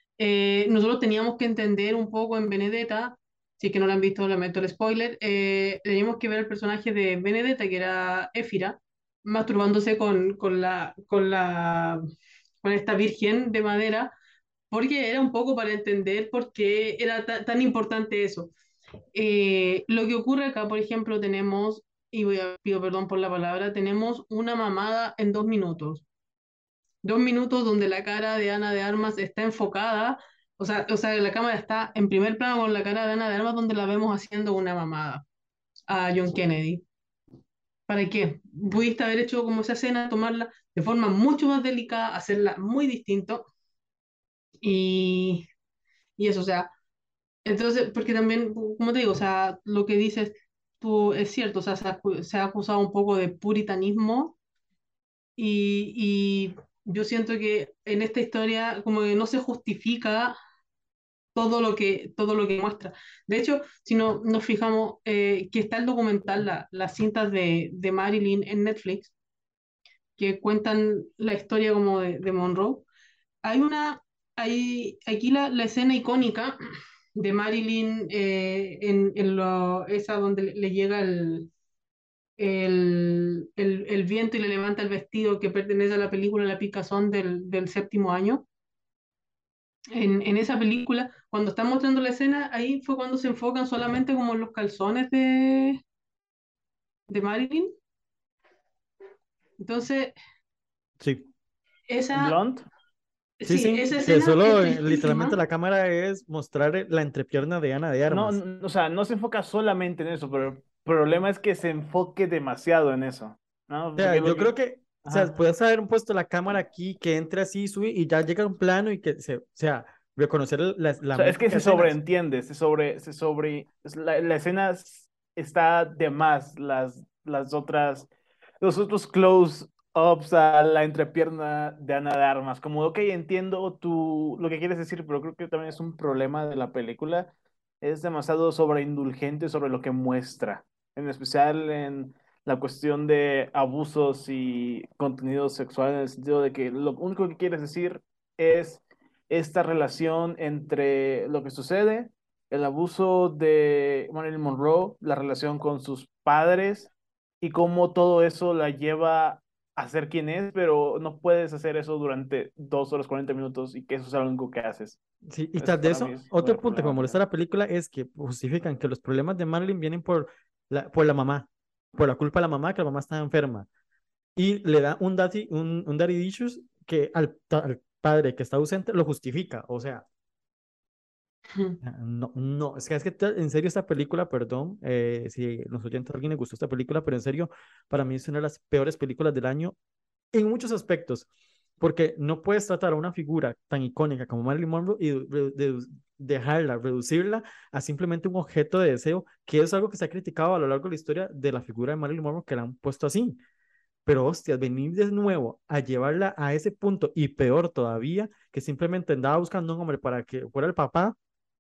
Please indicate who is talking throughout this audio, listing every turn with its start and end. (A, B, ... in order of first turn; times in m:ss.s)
0:00.2-0:12.0 A
0:12.6-0:14.1 A
0:14.7-0:18.5 A
0:19.1-0:26.0 A
0:27.0-0:35.2 A
0:35.9-0:36.8 A
0:37.9-0:43.5 A
0:44.6-0:45.4 A
0:46.2-0:46.7 A
0:47.4-0:54.4 A
0:55.4-1:00.4 A
1:01.4-1:09.1 A
1:10.2-1:12.9 A
1:13.4-1:16.6 A
1:17.2-1:21.5 A
1:22.4-1:28.5 A
1:29.9-1:35.8 A
1:37.1-1:37.7 A
1:39.6-1:40.1 A
1:41.0-1:41.3 B
1:41.9-1:42.3 A
1:42.1-1:42.6 C
1:43.4-1:45.4 A
1:43.5-1:48.4 B
1:48.1-1:54.5 C
1:54.0-2:02.0 B
1:55.0-1:55.3 C
2:01.1-2:36.9 C
2:37.4-2:45.0 C
2:45.3-2:53.7 B
2:45.6-2:47.2 C
2:54.4-3:00.0 B
3:01.5-3:01.8 A
3:01.8-3:09.8 B
3:10.3-3:11.3 B
3:11.8-3:23.4 B
3:24.1-3:31.2 B